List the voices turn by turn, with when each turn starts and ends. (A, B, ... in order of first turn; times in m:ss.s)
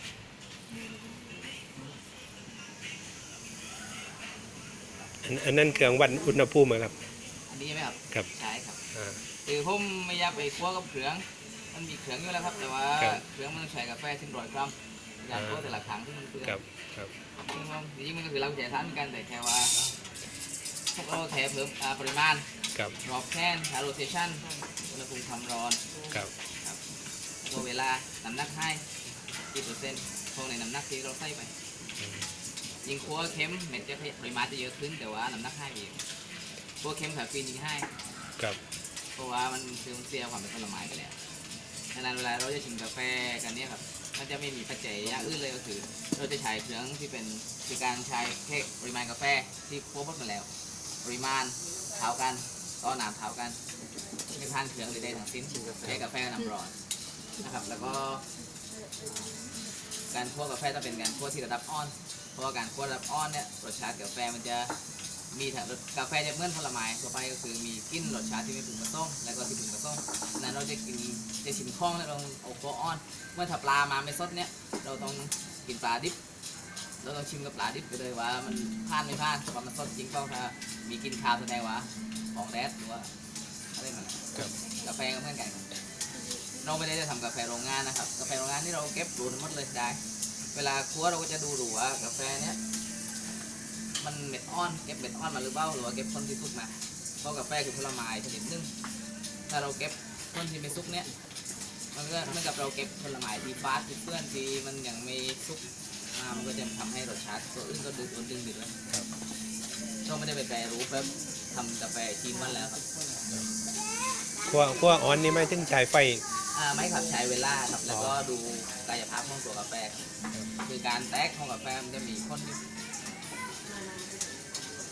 0:05.2-0:06.9 A
0:07.5-0:08.8 B
0:08.9-0:09.2 A
0:09.4-0:16.6 B
0:15.4-0:15.7 A
0:16.5-0:17.1 A
0:17.5-0:19.8 B
0:20.9-0:22.5 B
0:23.0-0:25.8 B
0:27.4-0:28.8 B
0:29.5-0:31.5 B
0:32.8-0:36.0 B
0:36.8-0:37.9 B
0:39.2-0:41.2 B
0:41.9-0:50.5 B
0:51.0-0:53.6 B
0:54.3-0:56.7 B
0:57.4-0:58.2 B
1:00.1-1:04.7 B
1:05.3-1:16.2 B
1:17.0-1:23.1 B
1:23.8-1:25.7 B
1:26.6-1:30.0 B
1:30.5-1:32.6 B
1:34.0-1:38.7 B
1:39.5-1:41.1 B
1:41.9-1:45.6 B
1:46.1-1:48.7 B
1:50.0-1:52.8 B
1:54.4-1:56.2 A
1:56.5-2:00.0 B
2:00.6-2:02.6 B